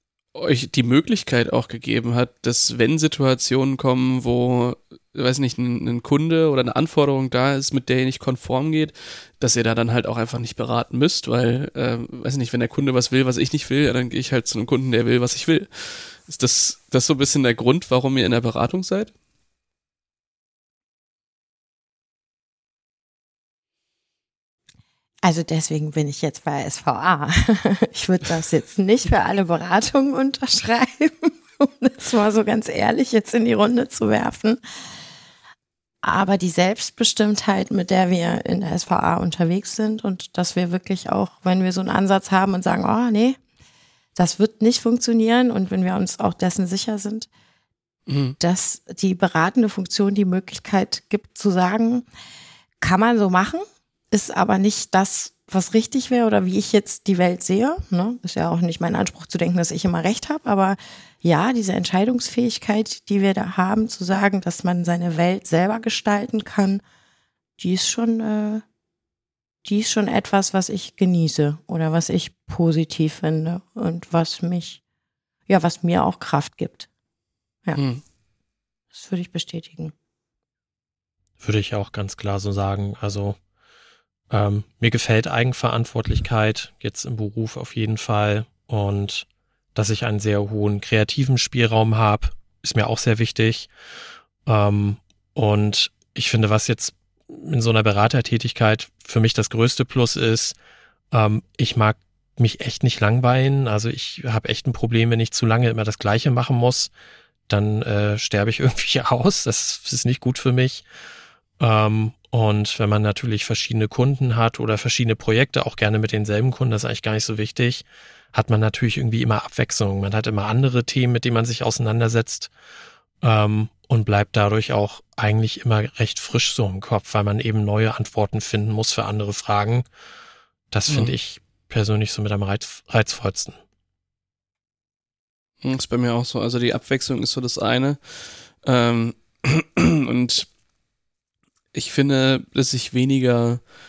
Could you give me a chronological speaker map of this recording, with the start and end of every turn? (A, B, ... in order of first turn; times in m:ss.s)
0:00.3-0:19.1 A
0:25.2-0:34.6 B
0:36.0-0:43.4 B
0:44.2-0:47.3 B
0:48.1-0:48.4 A
0:48.4-0:52.1 B
0:52.8-1:06.8 B
1:07.6-1:08.6 B
1:09.6-1:14.8 B
1:15.5-1:16.9 B
1:17.8-1:18.0 A
1:18.9-1:19.9 B
1:21.4-1:23.4 C
1:24.3-1:33.7 C
1:34.5-1:40.6 C
1:41.1-1:46.9 C
1:47.5-1:50.8 C
1:51.6-2:02.5 C
2:03.2-2:09.9 C
2:10.7-2:13.6 C
2:10.9-2:11.2 A
2:15.6-2:20.5 A
2:21.7-2:23.6 A